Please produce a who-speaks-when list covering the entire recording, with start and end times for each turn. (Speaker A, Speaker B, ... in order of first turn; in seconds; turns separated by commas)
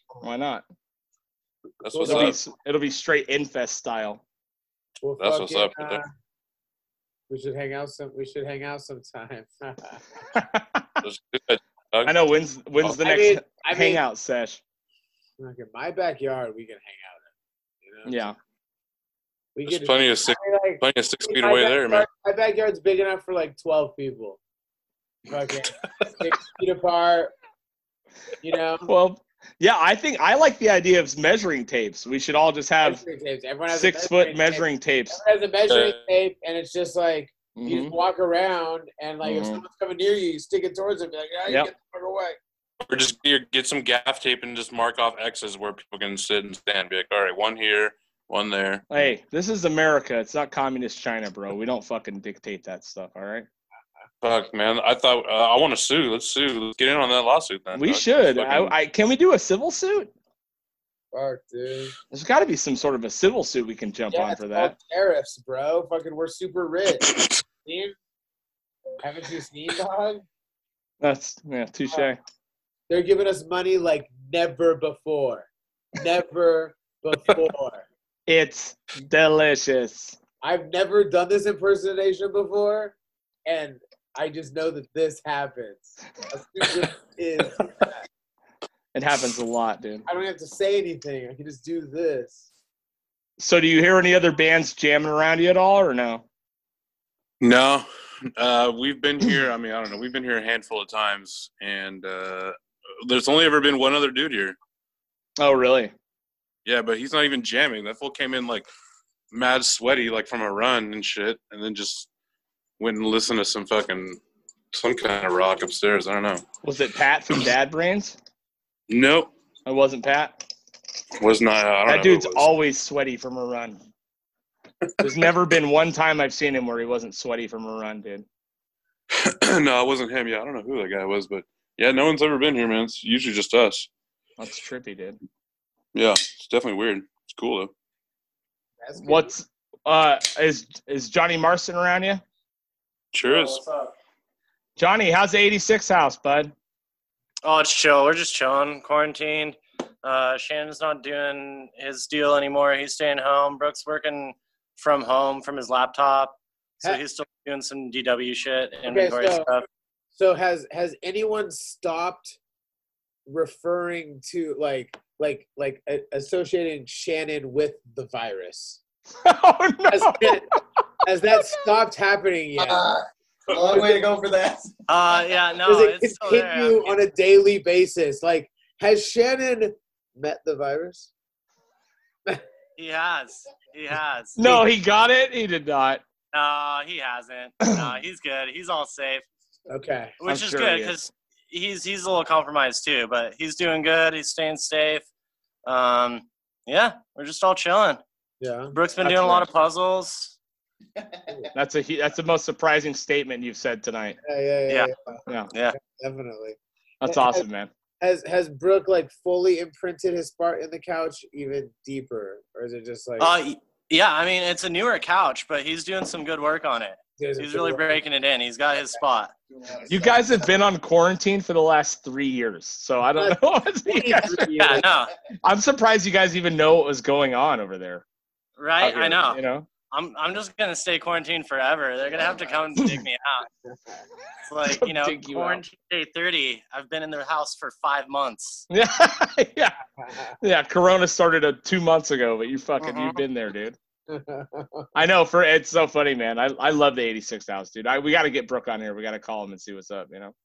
Speaker A: 0.2-0.6, Speaker B: 1.8-2.4, Speaker C: 1.9-2.4, Speaker A: 2.0-4.2, Speaker C: 5.0-6.1, Speaker B: 5.2-6.0, Speaker C: 7.3-10.0, Speaker A: 10.3-11.0, Speaker B: 11.0-12.1, Speaker A: 12.0-14.6, Speaker C: 13.0-14.0, Speaker C: 15.4-17.3, Speaker C: 17.8-18.2, Speaker A: 18.1-18.4, Speaker C: 19.5-24.4, Speaker B: 19.7-22.1, Speaker C: 25.3-27.3, Speaker C: 28.4-28.9, Speaker A: 28.9-33.0, Speaker C: 32.8-42.4, Speaker A: 33.7-35.2, Speaker B: 35.7-36.0, Speaker A: 37.5-37.9, Speaker A: 39.2-39.6, Speaker B: 42.8-48.8, Speaker A: 48.9-53.5, Speaker B: 54.2-58.7, Speaker A: 57.7-60.1, Speaker C: 61.1-61.9, Speaker A: 62.1-64.7, Speaker C: 64.1-67.9, Speaker C: 69.0-70.2, Speaker A: 71.0-72.2, Speaker C: 72.9-77.8, Speaker A: 78.3-80.2, Speaker C: 80.4-88.0, Speaker A: 88.9-90.0, Speaker C: 90.0-92.5, Speaker A: 93.4-96.2, Speaker B: 97.4-104.5, Speaker A: 105.4-105.9, Speaker B: 106.7-108.7, Speaker B: 109.3-112.1, Speaker B: 112.8-114.2, Speaker B: 114.7-116.5, Speaker A: 116.6-118.2, Speaker B: 118.9-119.3, Speaker A: 119.7-120.3, Speaker B: 121.2-122.5, Speaker A: 121.8-123.8, Speaker A: 125.0-128.2, Speaker B: 129.1-133.9, Speaker A: 134.4-135.2, Speaker B: 135.9-137.7, Speaker C: 138.8-139.3, Speaker A: 139.0-142.2, Speaker B: 143.1-143.6, Speaker D: 143.3-143.9, Speaker A: 144.8-146.5, Speaker D: 147.4-159.7, Speaker C: 158.8-159.5, Speaker C: 160.2-162.4, Speaker C: 163.3-168.8, Speaker A: 169.2-170.4, Speaker C: 169.9-170.5, Speaker C: 171.0-172.8, Speaker E: 172.6-174.7, Speaker C: 173.6-173.9, Speaker D: 174.9-177.0, Speaker C: 175.6-181.1, Speaker D: 182.8-184.5, Speaker A: 184.4-186.0, Speaker D: 186.3-189.2, Speaker A: 187.6-187.9, Speaker C: 189.7-190.1, Speaker D: 190.2-195.1, Speaker A: 190.2-191.0, Speaker D: 195.6-198.0, Speaker C: 198.4-198.8, Speaker D: 198.7-200.3, Speaker A: 199.0-199.5, Speaker E: 201.0-201.5, Speaker A: 201.5-204.2, Speaker C: 204.2-205.2, Speaker D: 205.5-205.8, Speaker C: 205.8-207.4, Speaker A: 207.0-207.7, Speaker C: 208.0-213.3, Speaker D: 213.2-219.3, Speaker C: 217.2-217.9, Speaker E: 219.5-220.3, Speaker A: 219.9-224.8, Speaker C: 223.2-224.8, Speaker D: 224.7-225.1, Speaker A: 225.4-228.0, Speaker D: 228.6-229.4, Speaker A: 228.8-229.7, Speaker D: 229.9-233.5, Speaker A: 232.8-233.0, Speaker D: 234.5-238.6, Speaker A: 234.7-235.6, Speaker A: 238.7-239.8, Speaker A: 240.4-243.8, Speaker D: 242.8-243.2, Speaker C: 244.1-244.9, Speaker A: 244.9-250.3